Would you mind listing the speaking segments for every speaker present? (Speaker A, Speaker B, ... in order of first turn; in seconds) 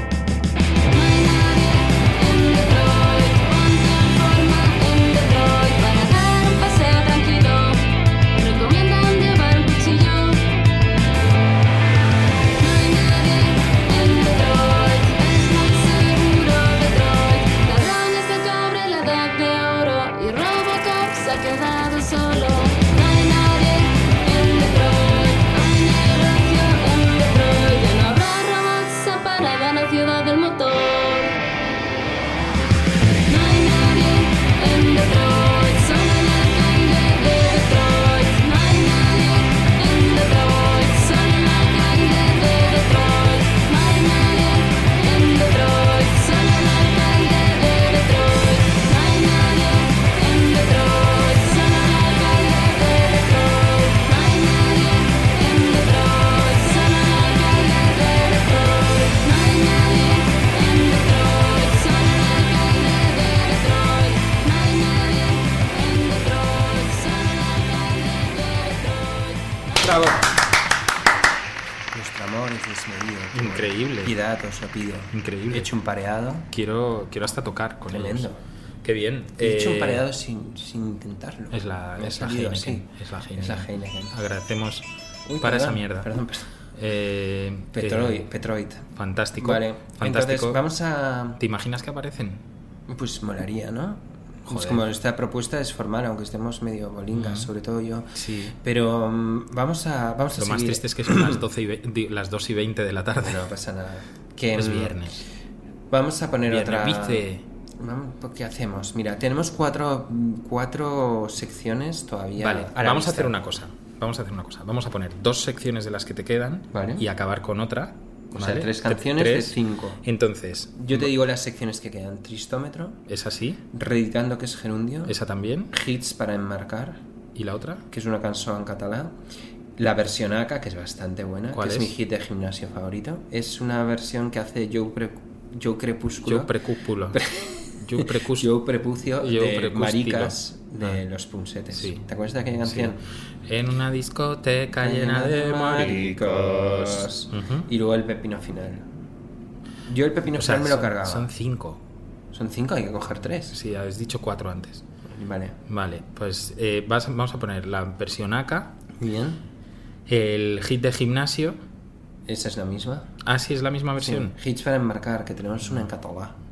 Speaker A: 0.9-10.5, 12.6-31.4, 33.3-70.0
Speaker B: 69.8-70.2, 71.9-76.5, 77.9-78.4, 79.4-84.1, 85.2-86.5, 87.7-88.9, 89.4-91.4, 92.9-98.1, 98.6-101.4, 103.2-105.1, 105.9-107.2, 107.8-113.4, 116.7-117.0, 118.3-120.0, 120.8-123.0, 123.7-125.2, 125.7-127.0, 127.9-129.1, 129.8-136.5, 137.1-143.0, 144.8-148.8, 149.9-151.3, 152.3-153.6, 155.1-155.6, 159.0-159.4, 162.3-163.1, 164.0-166.3
Speaker C: 69.8-70.1, 73.3-74.1, 75.1-75.7, 76.5-78.3, 78.8-80.0, 81.5-84.9, 85.4-86.1, 86.8-88.2, 88.9-90.6, 91.4-92.4, 94.5-94.8, 97.1-97.5, 98.1-98.5, 100.4-103.4, 104.5-105.2, 106.5-107.4, 112.4-121.1, 123.1-123.6, 125.0-125.7, 127.3-127.8, 131.5-131.9, 136.2-137.2, 137.8-138.5, 139.2-141.0, 141.7-142.0, 142.6-147.7, 150.3-151.8, 153.5-154.8, 155.7-158.8, 160.1-161.6, 163.2-164.3, 165.6-165.9